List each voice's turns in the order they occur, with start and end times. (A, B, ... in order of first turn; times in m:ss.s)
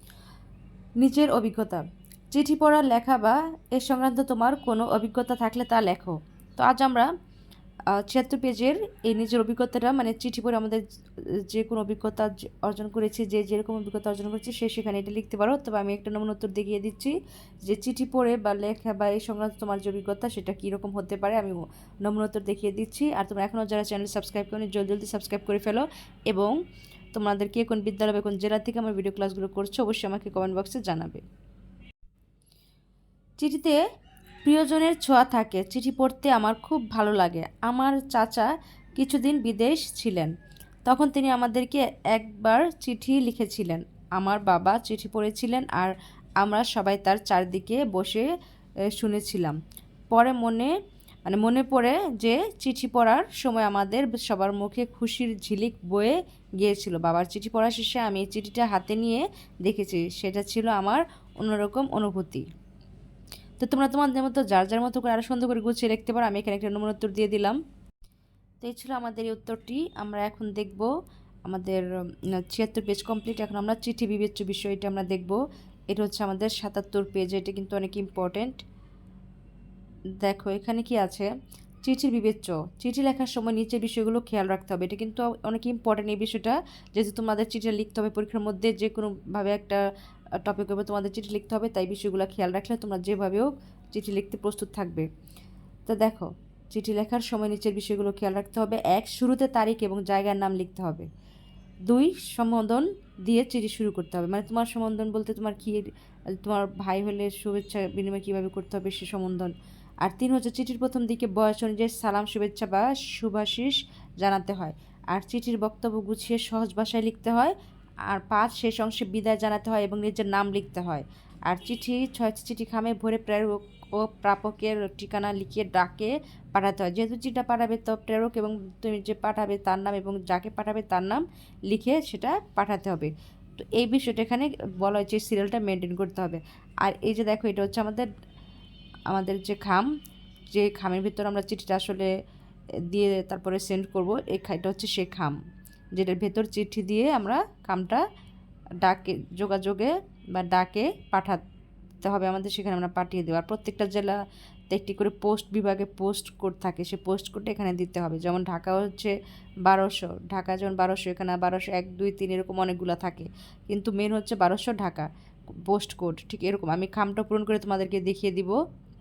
0:01.0-0:07.1 A
0:07.9-0:10.8 A
0:11.4-0:26.6 A
0:27.1-0:31.2 A
0:33.4-0:33.8 A
0:34.4-0:40.3 A
0:40.9-0:48.3 A
0:48.9-0:49.6 A
0:50.1-0:50.7 A
0:51.3-1:02.5 A
1:03.6-1:07.6 A
1:08.6-1:10.9 A
1:11.4-1:11.8 A
1:12.4-1:15.4 A
1:15.9-1:18.6 A
1:20.2-1:21.3 A
1:21.8-1:29.8 A
1:30.4-1:35.1 A
1:35.9-1:41.0 A
1:41.9-1:49.5 A
1:50.0-1:57.5 A
1:58.1-2:18.1 A
2:19.1-2:19.9 A
2:20.5-2:22.1 A
2:22.8-2:25.4 A
2:25.9-2:28.0 A
2:28.8-2:31.4 A
2:32.0-2:34.2 A
2:34.7-2:39.1 A
2:39.6-2:45.1 A
2:45.6-2:48.6 A